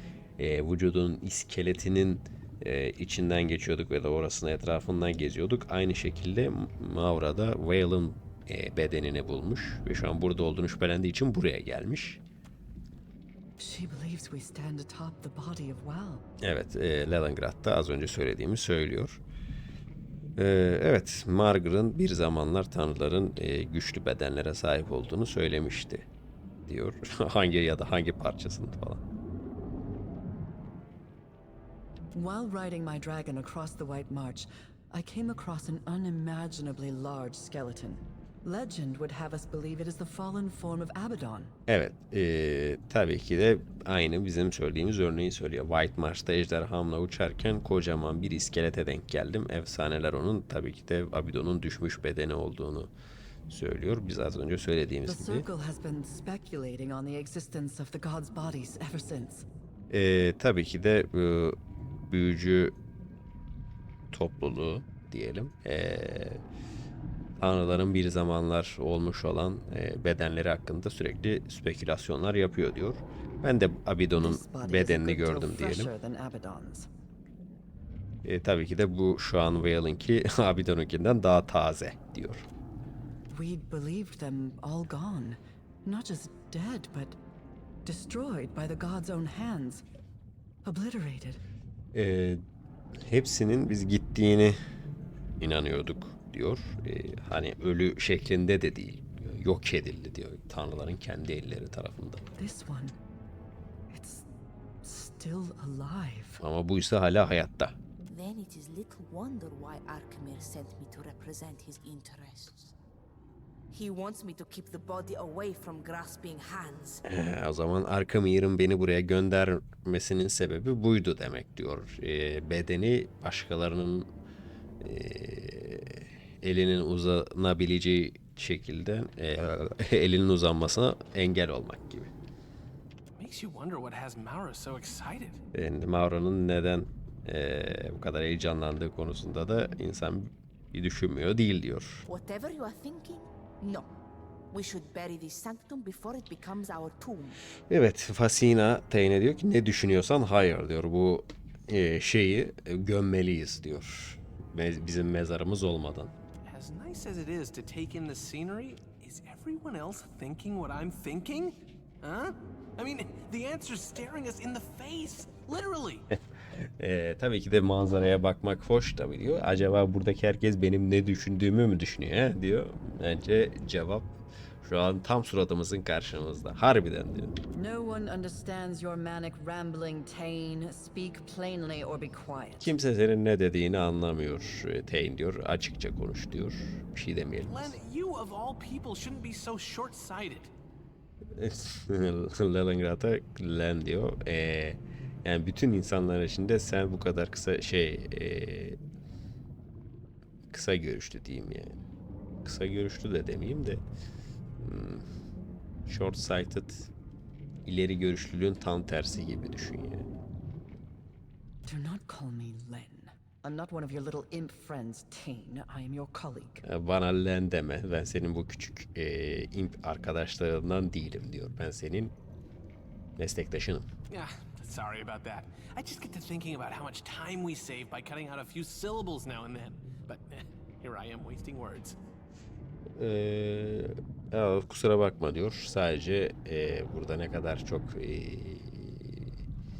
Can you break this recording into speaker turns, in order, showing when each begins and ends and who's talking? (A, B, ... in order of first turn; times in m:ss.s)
0:00.4-0:12.2 A
0:13.6-0:16.2 B
0:16.4-0:19.2 A
0:20.4-0:26.1 A
0:26.6-0:29.0 A
0:32.1-0:41.5 B
0:41.7-0:52.9 A
0:53.5-0:55.4 A
0:55.0-0:59.4 B
0:59.9-1:01.6 A
1:02.1-1:02.7 A
1:04.1-1:06.4 A
1:07.4-1:15.9 A
1:14.2-1:16.9 B
1:18.2-1:22.5 A
1:23.3-1:27.2 B
1:27.8-1:29.8 B
1:30.6-1:31.4 B
1:31.9-1:32.4 A
1:33.0-1:34.6 A
1:35.4-1:42.3 A
1:42.4-1:43.0 B
1:43.9-1:44.3 B
1:44.8-1:46.4 B
1:46.4-1:47.8 A
1:48.1-1:52.7 C
1:53.7-1:57.0 C
1:57.0-2:04.1 A
2:04.8-2:12.1 A
2:13.1-2:15.4 D
2:15.5-2:22.0 A
2:22.1-2:23.9 C
2:24.5-2:27.4 C
2:27.7-2:36.1 A
2:36.4-2:46.0 D
2:46.6-2:57.3 A
2:57.5-3:02.7 B
3:02.6-3:07.7 A
3:07.5-3:10.5 D
3:11.3-3:18.8 A
3:20.5-3:21.8 A
3:22.4-3:23.8 A
3:24.6-3:25.1 A
3:25.8-3:26.9 A
3:27.6-3:30.1 A
3:31.6-3:36.6 B
3:36.6-3:42.1 A
3:43.2-3:43.9 A
3:44.1-3:52.0 D
3:53.0-3:59.4 A